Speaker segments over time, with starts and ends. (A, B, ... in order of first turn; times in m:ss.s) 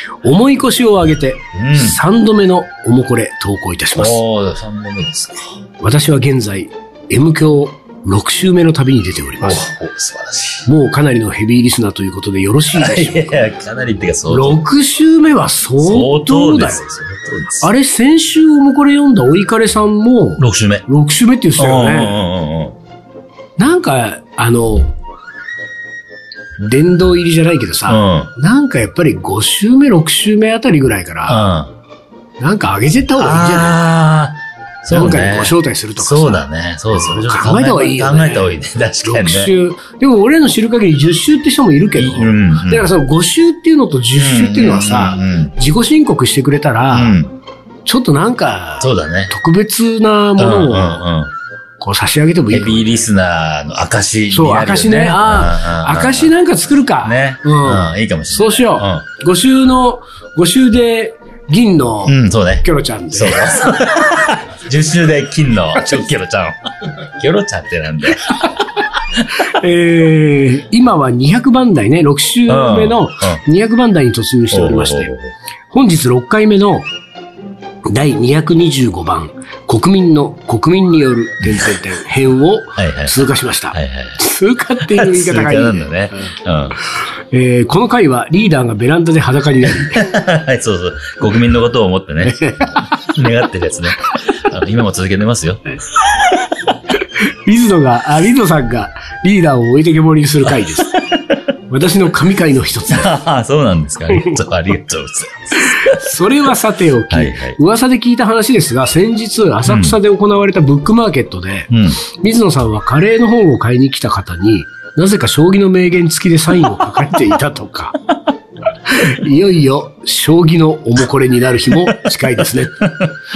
0:00.2-0:04.2 A
0:01.5-0:02.0 B
0:04.0-0:05.6 B
0:05.8-0:09.7 A
0:09.4-0:10.7 B
0:10.7-0:13.5 A
0:12.8-0:14.6 B
0:14.3-0:16.9 A
0:15.8-0:17.7 B
0:17.6-0:22.2 A
0:20.4-0:20.9 B
0:21.6-0:22.8 B
0:23.6-0:24.9 A
0:26.6-0:31.4 A
0:27.9-0:28.3 B
0:31.3-0:31.7 B
0:32.4-0:33.8 A
0:33.2-0:39.5 B
0:34.9-0:47.2 A
0:42.0-0:42.9 B
0:44.2-0:45.5 B
0:46.9-0:47.3 B
0:47.9-0:51.1 A
0:48.8-0:49.3 B
0:50.4-0:51.3 B
0:51.8-0:53.0 A
0:52.5-0:56.3 B
0:54.3-1:03.9 A
0:57.0-0:59.0 B
1:02.0-1:08.5 B
1:09.3-1:15.1 A
1:12.5-1:13.4 B
1:14.5-1:15.3 B
1:15.7-1:16.9 A
1:17.9-1:26.4 A
1:21.4-1:21.7 B
1:22.8-1:24.2 B
1:24.9-1:26.8 B
1:27.3-1:30.1 A
1:29.9-1:35.6 B
1:32.2-1:32.9 A
1:36.9-1:41.0 A
1:40.6-1:41.3 B
1:41.7-1:43.1 A
1:42.9-1:46.2 B
1:44.1-1:44.4 A
1:45.7-1:58.0 A
1:47.1-1:47.6 B
1:49.6-1:50.0 B
1:51.7-1:52.0 B
1:58.8-2:03.1 A